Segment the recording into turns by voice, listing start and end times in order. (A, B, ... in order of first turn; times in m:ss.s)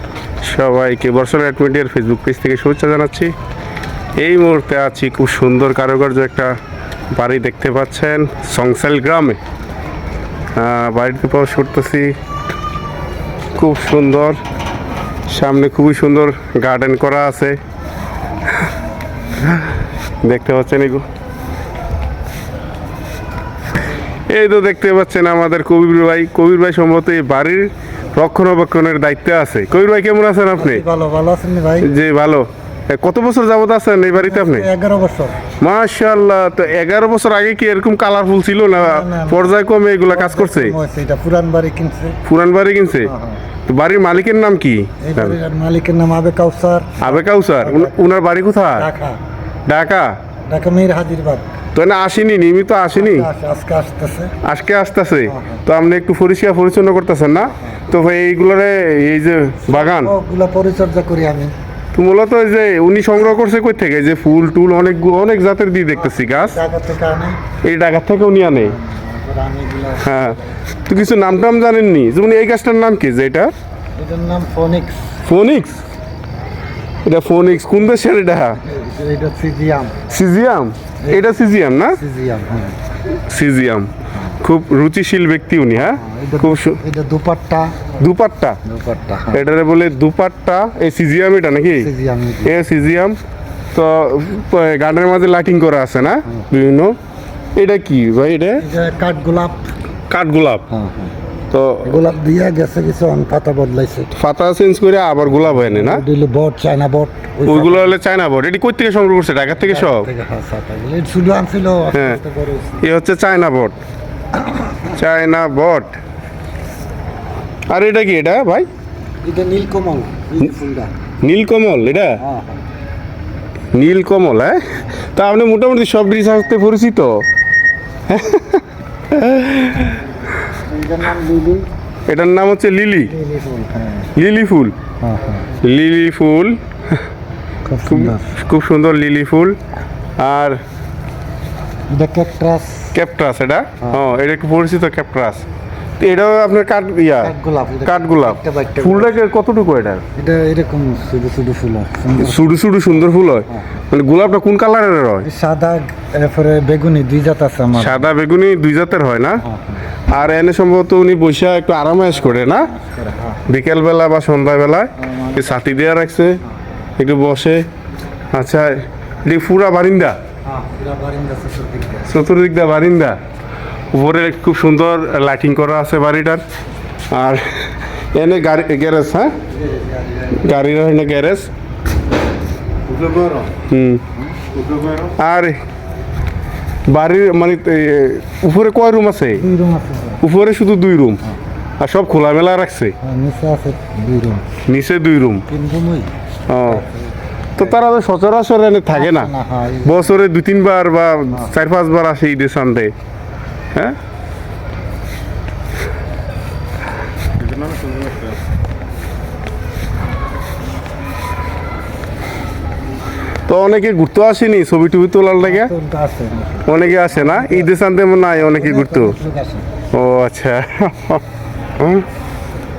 0:00.4-0:03.3 A
0:04.2-0:06.5 A
0:07.1-0:09.4 A
0:10.6-0:12.1 A
0:13.5-0:14.4 A
0:15.3-0:17.6 A
0:19.4-0:19.7 A
0:20.2-0:21.0 A
0:24.3-0:30.8 A
0:30.6-0:31.9 B
0:31.8-0:34.7 A
0:34.2-0:35.4 B
0:35.6-0:40.8 A
0:38.7-0:39.5 B
0:40.1-0:42.2 B
0:42.2-0:43.1 A
0:43.0-0:43.4 B
0:43.7-0:45.4 A
0:45.0-0:48.0 B
0:47.0-0:48.9 A
0:48.8-0:49.2 B
0:49.7-0:50.2 A
0:50.5-0:51.5 B
0:51.7-0:53.3 A
0:52.9-0:54.3 B
0:54.4-1:00.1 A
0:55.2-0:55.6 B
0:59.7-1:01.5 B
1:01.9-1:06.6 A
1:05.9-1:07.4 B
1:07.6-1:08.8 A
1:08.5-1:10.1 B
1:10.0-1:13.5 A
1:14.0-1:15.1 B
1:15.2-1:15.8 A
1:17.0-1:18.6 A
1:18.6-1:20.0 B
1:20.1-1:22.0 A
1:21.0-1:21.3 B
1:21.9-1:22.8 B
1:23.3-1:26.8 A
1:25.8-1:27.8 B
1:28.0-1:28.6 A
1:28.6-1:29.4 B
1:29.3-1:31.9 A
1:31.8-1:32.5 B
1:32.4-1:33.2 A
1:33.7-1:37.0 A
1:37.5-1:38.6 A
1:38.6-1:39.7 B
1:40.1-1:40.6 A
1:40.7-1:41.1 B
1:41.5-1:41.9 A
1:41.8-1:44.1 B
1:44.1-1:46.0 A
1:45.3-1:48.0 B
1:47.4-1:50.1 A
1:49.6-1:52.8 B
1:51.9-1:52.2 A
1:52.8-1:53.8 A
1:54.9-1:56.0 A
1:57.7-1:58.7 A
1:59.2-2:00.9 B
2:01.2-2:02.2 A
2:02.2-2:02.6 B
2:03.7-2:07.2 A
2:08.1-2:10.0 A
2:10.6-2:11.6 B
2:12.1-2:13.1 A
2:13.0-2:14.1 B
2:14.1-2:14.7 A
2:15.0-2:15.5 B
2:15.6-2:17.0 A
2:17.6-2:18.3 B
2:17.8-2:19.6 A
2:20.2-2:20.6 A
2:21.9-2:22.9 B
2:22.9-2:25.4 A
2:26.0-2:27.3 A
2:27.2-2:29.2 B
2:27.8-2:30.0 A
2:30.2-2:32.6 B
2:32.2-2:35.3 A
2:35.2-2:38.1 B
2:37.7-2:39.4 A
2:39.4-2:39.8 B
2:40.1-2:42.7 A
2:42.0-2:43.4 B
2:43.4-2:46.4 A
2:45.0-2:45.7 B
2:47.0-2:47.6 A
2:48.3-2:50.2 A
2:50.4-2:52.2 B
2:52.0-2:53.2 A
2:53.9-2:56.4 A
2:57.1-2:59.3 A
2:59.5-3:00.4 B
3:00.3-3:01.5 A
3:03.6-3:04.0 A
3:05.1-3:05.6 A
3:06.9-3:09.4 A
3:09.3-3:10.2 B
3:10.2-3:11.2 A
3:11.8-3:13.0 A
3:13.0-3:14.4 B
3:14.6-3:15.4 A
3:15.5-3:16.1 B
3:16.5-3:16.8 A
3:16.6-3:17.8 B
3:17.6-3:19.3 A
3:18.9-3:20.2 B
3:19.8-3:22.9 A
3:33.5-3:35.7 A
3:35.4-3:37.7 B
3:36.6-3:39.2 A
3:38.3-3:39.7 B
3:39.9-3:41.2 A
3:41.8-3:42.0 A